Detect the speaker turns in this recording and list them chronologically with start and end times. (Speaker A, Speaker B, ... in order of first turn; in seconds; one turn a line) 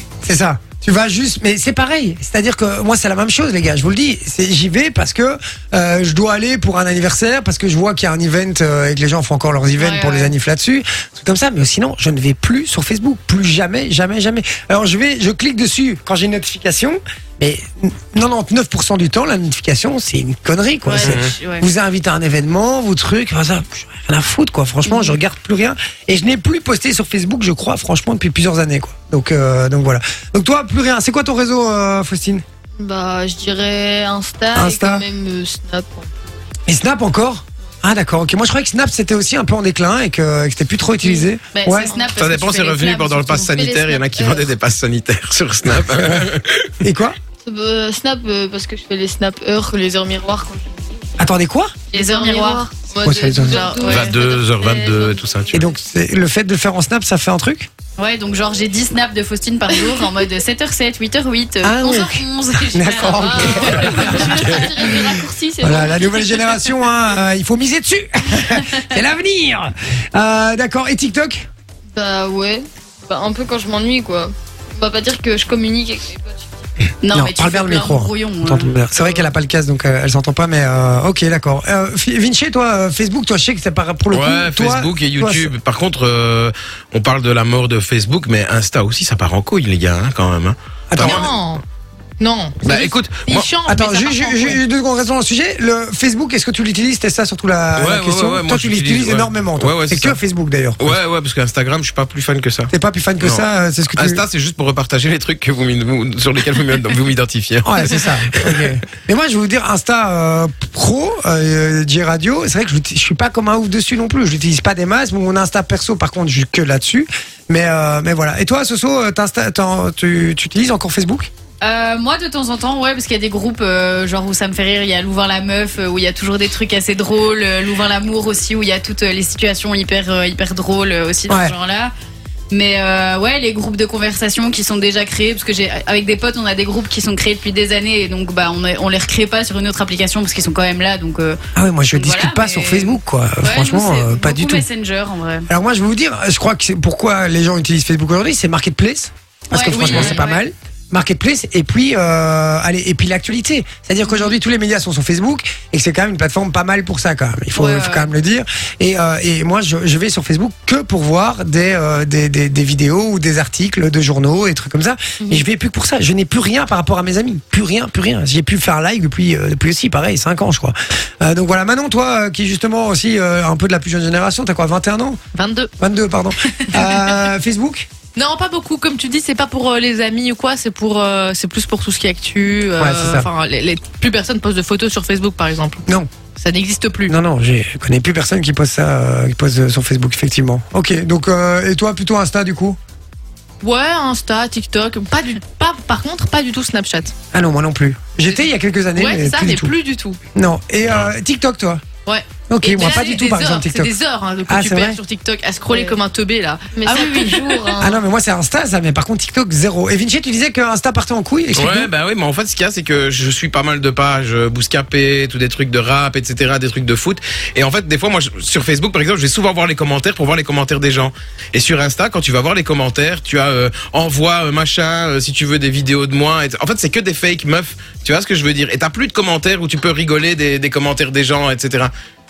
Speaker A: 0.2-32.4
Speaker B: 9.8-10.4
Speaker B: 20.9-21.7
Speaker C: 21.1-21.3
Speaker B: 24.9-25.1
Speaker D: 32.8-36.3
Speaker A: 34.5-35.1
Speaker A: 36.7-41.9
Speaker B: 41.0-43.5
Speaker D: 41.9-42.2
Speaker C: 42.2-46.8
Speaker D: 43.5-44.5
Speaker A: 45.9-46.2
Speaker A: 46.8-47.2
Speaker D: 47.4-51.2
Speaker A: 51.2-51.8
Speaker D: 51.9-55.7
Speaker B: 51.9-52.7
Speaker A: 53.0-53.6
Speaker E: 53.5-53.8
Speaker B: 53.6-54.1
Speaker C: 53.9-55.5
Speaker A: 55.5-57.7
Speaker B: 58.0-64.8
Speaker D: 59.7-60.2
Speaker A: 61.6-65.1
Speaker D: 63.2-66.6
Speaker A: 65.6-71.5
Speaker D: 71.9-76.7
Speaker B: 77.0-79.2
Speaker A: 77.1-85.5
Speaker C: 84.1-91.2
Speaker A: 90.9-91.3
Speaker E: 91.0-91.6
Speaker E: 92.2-94.6
Speaker C: 92.6-93.5
Speaker A: 93.7-101.0
Speaker C: 97.7-100.2
Speaker C: 100.8-108.7
Speaker A: 102.7-104.2
Speaker A: 107.6-121.3
Speaker B: 121.6-131.9
Speaker A: 131.3-131.5
Speaker B: 132.5-141.4
Speaker A: 141.6-144.6
Speaker B: 141.9-145.5
Speaker A: 145.5-175.2
Speaker B: 149.5-150.4
Speaker E: 149.7-150.2
Speaker B: 157.5-158.1
Speaker E: 165.2-165.4
Speaker E: 175.3-175.7
Speaker A: 175.8-177.9
Speaker E: 178.2-187.1
Speaker A: 182.8-183.3
Speaker A: 187.1-192.8
Speaker E: 193.6-197.1
Speaker A: 197.3-199.7
Speaker E: 199.0-200.2
Speaker A: 200.3-201.8
Speaker E: 202.1-207.8
Speaker A: 202.5-203.9
Speaker A: 204.5-205.0
Speaker D: 205.7-206.0
Speaker D: 206.8-208.0
Speaker A: 207.8-211.9
Speaker C: 211.5-231.9